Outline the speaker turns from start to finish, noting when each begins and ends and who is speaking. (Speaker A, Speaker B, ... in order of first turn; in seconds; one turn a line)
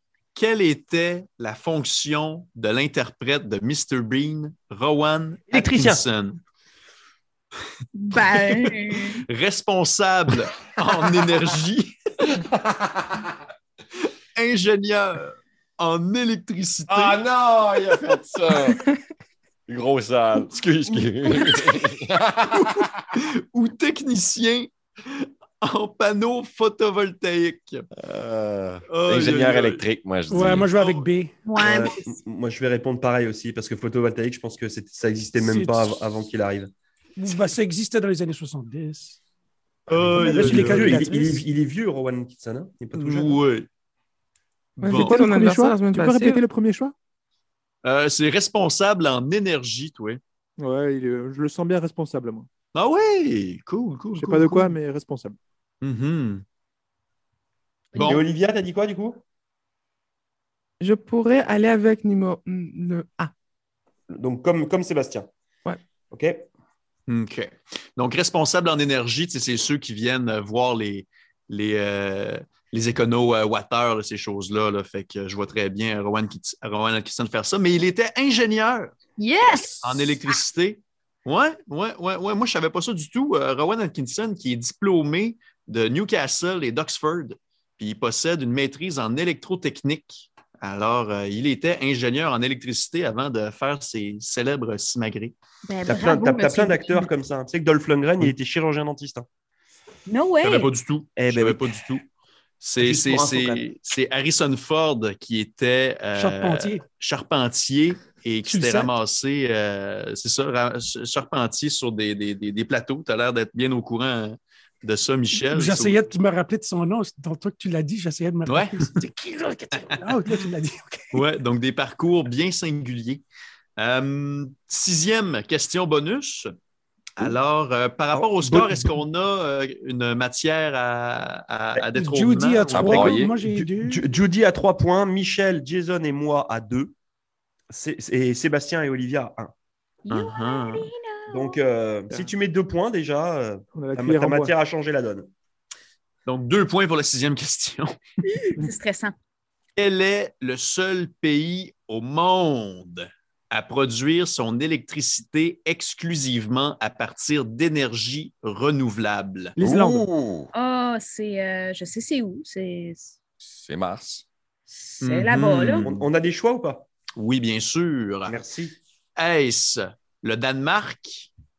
Speaker A: 0.3-6.4
Speaker B: 5.5-6.0
Speaker C: 7.9-9.2
Speaker A: 8.1-11.9
Speaker D: 12.5-13.3
Speaker A: 14.3-17.2
Speaker D: 16.9-18.9
Speaker D: 19.7-22.9
Speaker A: 22.5-27.9
Speaker D: 28.0-30.7
Speaker A: 28.9-29.8
Speaker E: 30.3-31.3
Speaker A: 30.4-31.0
Speaker C: 31.4-32.1
Speaker B: 31.6-36.7
Speaker E: 35.3-36.1
Speaker E: 37.2-39.2
Speaker A: 39.9-40.9
Speaker E: 40.1-41.5
Speaker B: 40.3-43.4
Speaker A: 42.9-43.7
Speaker A: 44.8-45.2
Speaker F: 44.8-46.4
Speaker G: 44.9-46.9
Speaker A: 47.8-50.2
Speaker G: 50.6-52.5
Speaker A: 52.7-54.8
Speaker G: 54.1-55.4
Speaker A: 55.8-56.4
Speaker A: 57.9-58.2
Speaker C: 57.9-58.2
Speaker B: 58.0-59.2
Speaker F: 60.8-63.3
Speaker B: 64.1-65.3
Speaker B: 66.1-66.4
Speaker A: 67.1-78.9
Speaker C: 79.2-80.2
Speaker A: 79.8-95.3
Speaker C: 95.7-97.1
Speaker B: 95.8-99.2
Speaker C: 100.1-100.7
Speaker A: 100.4-102.0
Speaker B: 101.2-101.8
Speaker A: 102.6-116.0
Speaker B: 102.8-103.6
Speaker E: 106.1-106.8
Speaker E: 108.4-108.9
Speaker E: 115.3-121.2
Speaker A: 118.5-119.0
Speaker A: 119.7-120.0
Speaker A: 121.1-123.2
Speaker A: 123.8-126.5
Speaker A: 127.2-133.1
Speaker B: 128.1-128.8
Speaker E: 131.9-134.1
Speaker B: 132.7-136.9
Speaker D: 132.7-133.3
Speaker B: 137.7-139.5
Speaker C: 140.0-141.6
Speaker A: 140.1-140.9
Speaker B: 141.3-145.3
Speaker G: 143.7-144.5
Speaker A: 146.2-147.9
Speaker C: 148.2-149.1
Speaker A: 149.8-159.6
Speaker G: 159.6-160.1
Speaker D: 159.6-160.5
Speaker C: 160.5-163.2
Speaker D: 163.4-164.2
Speaker C: 164.7-165.9
Speaker A: 165.0-165.9
Speaker B: 165.8-166.8
Speaker A: 167.2-168.4
Speaker B: 168.3-168.8
Speaker A: 169.2-171.3